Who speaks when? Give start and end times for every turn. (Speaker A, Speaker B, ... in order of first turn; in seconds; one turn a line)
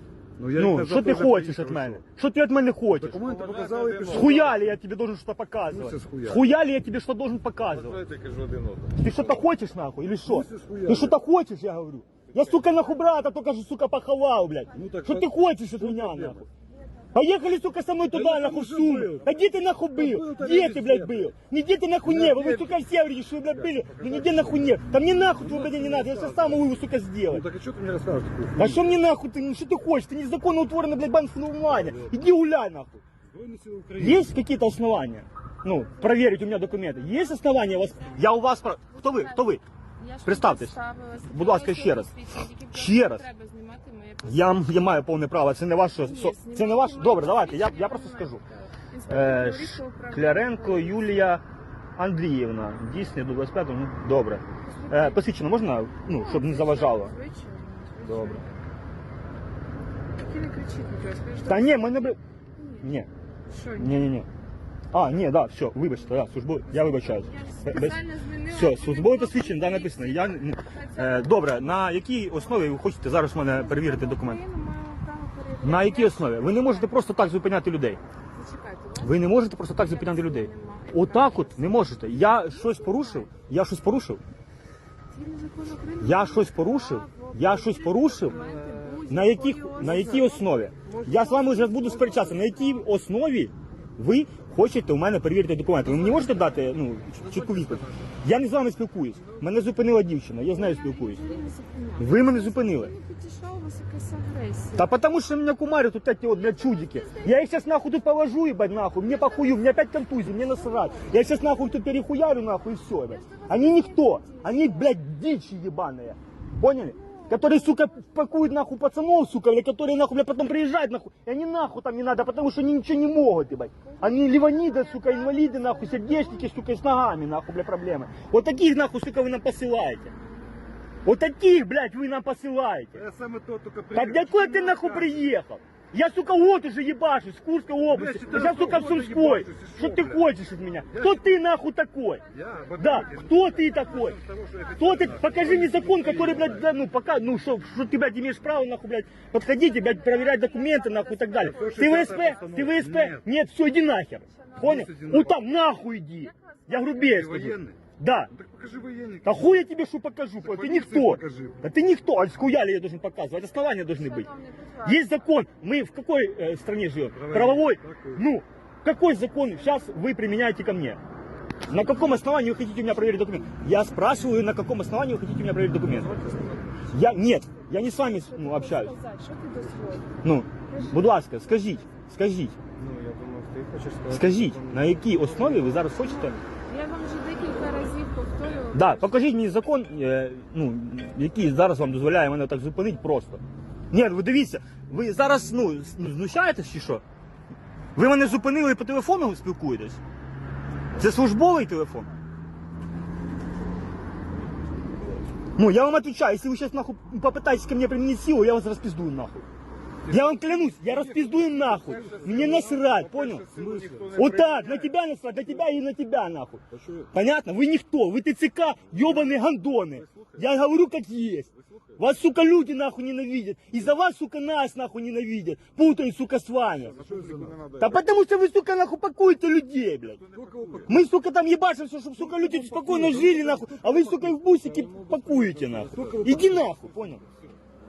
Speaker A: 0.4-2.0
Speaker B: 0.5-3.3
Speaker A: 3.0-4.6
Speaker C: 3.3-4.2
Speaker B: 4.0-8.1
Speaker A: 5.7-6.4
Speaker C: 7.9-8.9
Speaker B: 8.9-16.5
Speaker A: 10.3-11.2
Speaker A: 14.7-16.4
Speaker B: 17.1-27.5
Speaker A: 18.1-19.4
Speaker A: 19.9-21.3
Speaker A: 22.1-22.8
Speaker A: 23.5-24.7
Speaker A: 25.4-26.7
Speaker A: 27.3-28.9
Speaker B: 28.5-33.0
Speaker A: 33.3-34.3
Speaker B: 34.0-39.6
Speaker D: 35.8-44.6
Speaker B: 40.2-42.1
Speaker B: 42.7-43.3
Speaker B: 44.2-48.4
Speaker D: 46.0-51.3
Speaker B: 49.0-51.4
Speaker B: 52.0-57.2
Speaker D: 54.6-55.2
Speaker D: 56.1-58.6
Speaker B: 58.0-58.5
Speaker D: 60.2-61.8
Speaker B: 61.4-62.2
Speaker D: 62.6-62.9
Speaker B: 62.8-63.1
Speaker D: 63.5-64.1
Speaker B: 63.7-64.3
Speaker B: 64.9-74.4
Speaker D: 66.7-71.6
Speaker D: 73.3-77.0
Speaker B: 75.6-78.0
Speaker D: 78.3-83.3
Speaker B: 79.0-84.2
Speaker D: 85.1-92.9
Speaker B: 86.0-88.4
Speaker C: 88.3-89.0
Speaker B: 89.0-101.2
Speaker C: 90.9-91.3
Speaker C: 91.8-92.2
Speaker D: 95.8-96.7
Speaker A: 97.3-97.9
Speaker D: 100.5-104.9
Speaker B: 102.0-102.9
Speaker B: 104.7-130.1
Speaker D: 106.3-107.4
Speaker D: 109.0-109.7
Speaker D: 110.4-111.2
Speaker D: 113.1-114.9
Speaker D: 117.0-117.4
Speaker D: 123.9-126.5
Speaker B: 131.0-133.0
Speaker A: 133.0-135.2
Speaker B: 133.9-158.3
Speaker A: 137.9-140.2
Speaker A: 140.9-141.3
Speaker A: 142.3-146.7
Speaker D: 149.5-152.6
Speaker A: 151.5-153.2
Speaker D: 154.3-154.7
Speaker A: 154.6-155.4
Speaker D: 156.3-157.0
Speaker A: 157.0-157.8
Speaker A: 158.3-159.5
Speaker B: 159.2-164.3
Speaker A: 160.4-161.6
Speaker D: 164.0-165.1
Speaker B: 164.8-171.0
Speaker A: 167.2-168.2
Speaker B: 171.7-176.2
Speaker C: 176.0-176.8
Speaker B: 176.9-179.0
Speaker D: 178.0-180.2
Speaker B: 180.2-182.6
Speaker D: 180.7-181.2
Speaker C: 182.8-185.6
Speaker B: 184.1-186.4
Speaker D: 185.9-189.2
Speaker B: 188.7-197.0
Speaker B: 197.9-200.0
Speaker B: 201.0-202.1
Speaker B: 205.6-209.4
Speaker B: 210.1-213.5
Speaker A: 210.1-214.6
Speaker C: 211.9-212.3
Speaker C: 213.3-214.6
Speaker B: 214.1-227.0
Speaker A: 216.7-217.1
Speaker A: 226.9-228.0
Speaker C: 227.1-227.6
Speaker B: 227.8-230.2
Speaker A: 230.3-231.0
Speaker C: 230.4-230.8
Speaker B: 230.9-237.2
Speaker A: 232.2-236.9